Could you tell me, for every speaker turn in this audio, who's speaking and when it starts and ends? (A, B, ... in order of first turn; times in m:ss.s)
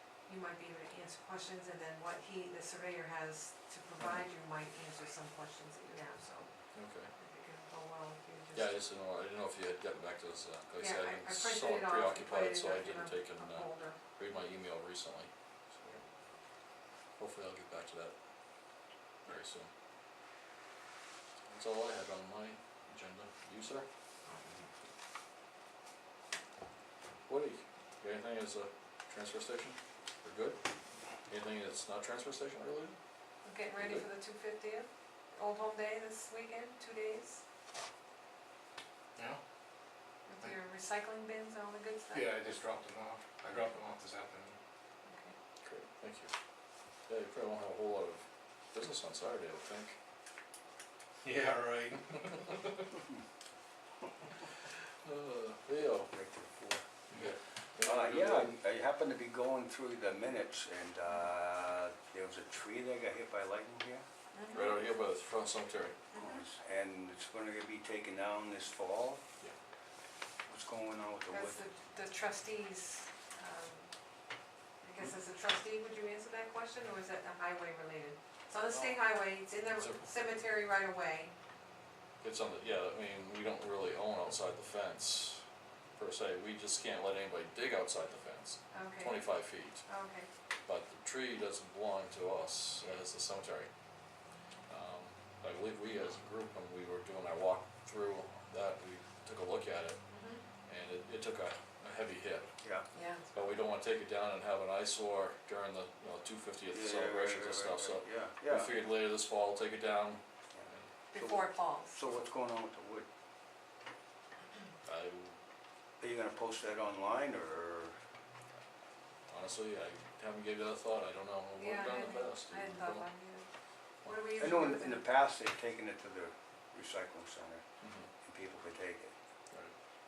0:00.2-0:06.5 A
0:04.0-0:04.2 B
0:06.7-0:07.1 B
0:07.1-0:08.8 A
0:08.5-0:16.0 B
0:10.8-0:14.0 A
0:17.2-0:18.1 B
0:19.2-0:19.7 B
0:21.5-0:23.9 B
0:27.3-0:30.6 B
0:31.3-0:32.9 B
0:33.4-0:37.4 A
0:33.8-0:34.1 B
0:40.3-0:42.3 A
0:42.1-0:44.6 C
0:45.0-0:45.3 A
0:45.6-0:46.3 B
0:47.1-0:50.0 B
0:51.2-0:52.9 C
0:55.0-0:56.1 B
0:56.1-0:56.8 D
0:57.1-0:58.6 B
0:57.8-1:04.0 D
1:04.3-1:04.8 A
1:04.5-1:06.0 B
1:06.1-1:06.4 A
1:06.1-1:09.2 D
1:10.5-1:11.6 D
1:11.3-1:13.9 A
1:14.8-1:21.3 A
1:18.7-1:19.0 B
1:19.7-1:20.4 B
1:22.2-1:25.4 B
1:26.0-1:29.8 B
1:28.7-1:29.2 A
1:29.9-1:30.3 A
1:30.6-1:33.7 B
1:34.7-1:40.0 B
1:40.1-1:40.4 A
1:40.7-1:42.5 B
1:42.9-1:43.5 A
1:43.3-1:50.9 B
1:46.7-1:48.8 D
1:50.5-1:53.1 D
1:51.1-1:52.0 A
1:54.8-1:55.3 B
1:56.0-1:57.9 D
1:59.3-2:03.1 B
2:01.6-2:03.5 A
2:04.0-2:05.0 A
2:04.4-2:07.6 D
2:07.8-2:08.1 B
2:08.2-2:09.1 D